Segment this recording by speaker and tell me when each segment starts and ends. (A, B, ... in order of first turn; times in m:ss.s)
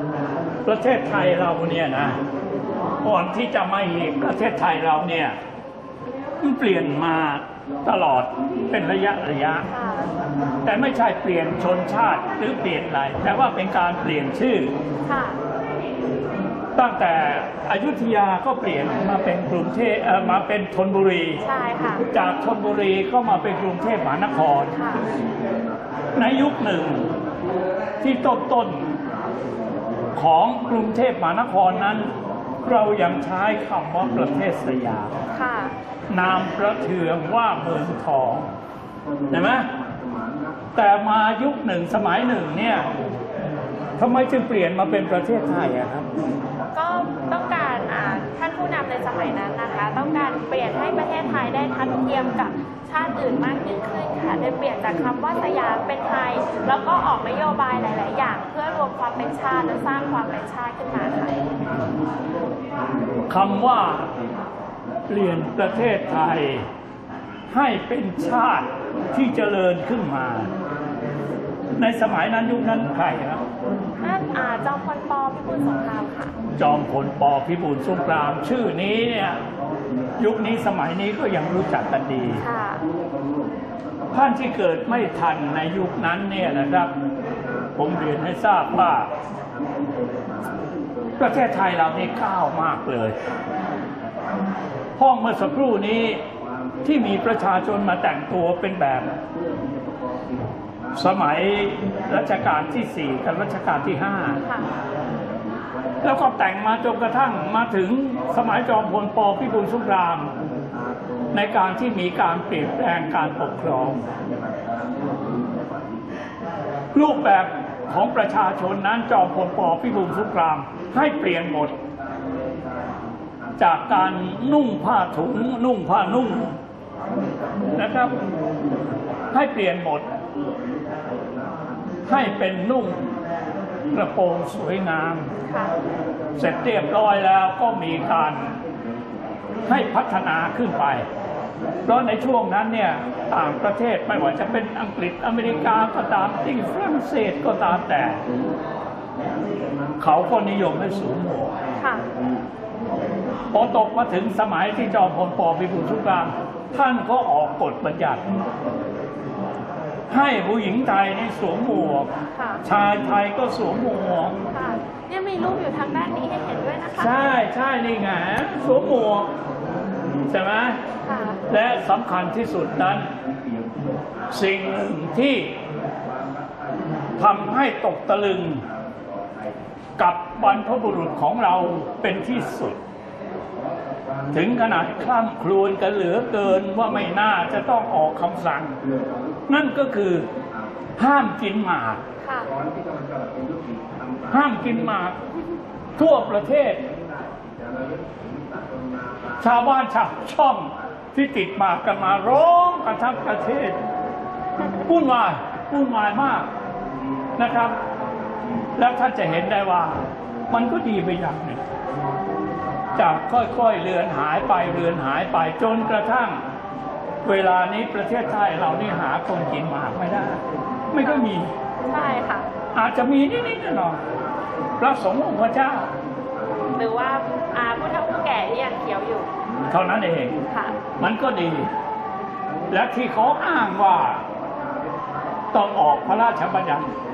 0:00.6-0:02.2 A
0:03.0-0:05.4 A
0:06.4-0:09.7 A
0:09.7-0:10.1 B
0:10.6-0:14.7 A
0:15.0-0:15.4 B
0:16.8-0:21.4 A
0:21.4-0:22.0 B
0:22.1-0:24.8 A
0:24.8-0:25.0 B
0:26.2-0:27.1 A
0:28.0-0:28.9 A
0:30.2-0:32.1 A
0:32.6-0:35.1 A
0:35.3-0:35.7 B
0:36.1-0:38.6 A
0:39.3-0:39.7 A
0:40.8-0:42.9 A
0:44.0-0:46.1 A
0:46.7-1:01.4 B
1:03.3-1:04.1 A
1:05.1-1:06.7 A
1:07.5-1:10.5 A
1:11.8-1:13.4 A
1:14.0-1:16.3 B
1:16.6-1:19.4 A
1:20.2-1:22.4 A
1:22.4-1:22.8 B
1:24.1-1:26.9 A
1:27.8-1:29.1 A
1:31.2-1:33.2 A
1:35.0-1:36.2 A
1:36.8-1:39.2 A
1:40.9-1:44.4 A
1:44.4-1:44.7 B
1:46.0-1:50.3 A
1:51.3-1:54.1 A
1:56.9-2:01.8 A
2:03.6-2:06.6 A
2:07.8-2:08.2 A
2:09.3-2:10.1 A
2:12.1-2:13.1 A
2:13.9-2:15.3 A
2:15.4-2:15.7 B
2:16.4-2:18.6 A
2:19.7-2:21.1 A
2:21.8-2:28.2 A
2:30.0-2:31.5 A
2:31.8-2:32.1 B
2:33.5-2:38.3 A
2:40.1-2:42.1 A
2:42.3-2:42.6 B
2:42.6-2:44.4 A
2:44.5-2:47.1 B
2:46.9-2:49.3 A
2:50.3-2:50.8 A
2:51.0-2:51.4 B
2:51.5-2:53.1 A
2:54.3-2:55.6 A
2:57.2-2:58.7 A
3:00.0-3:02.8 A
3:04.3-3:08.8 A
3:09.5-3:10.3 A
3:11.0-3:12.0 A
3:12.2-3:12.5 B
3:14.3-3:15.2 A
3:16.0-3:16.8 A
3:19.4-3:23.8 A
3:24.8-3:26.5 A
3:27.4-3:27.8 A
3:28.8-3:31.7 A
3:32.9-3:36.4 A
3:37.2-3:41.5 A
3:41.0-3:41.3 B
3:41.8-3:42.5 B
3:42.7-3:44.0 A
3:44.8-3:45.9 A
3:46.8-3:49.3 B
3:49.7-3:50.4 A
3:50.5-3:50.8 B
3:51.0-3:51.7 A
3:52.7-3:54.2 A
3:55.5-3:56.9 A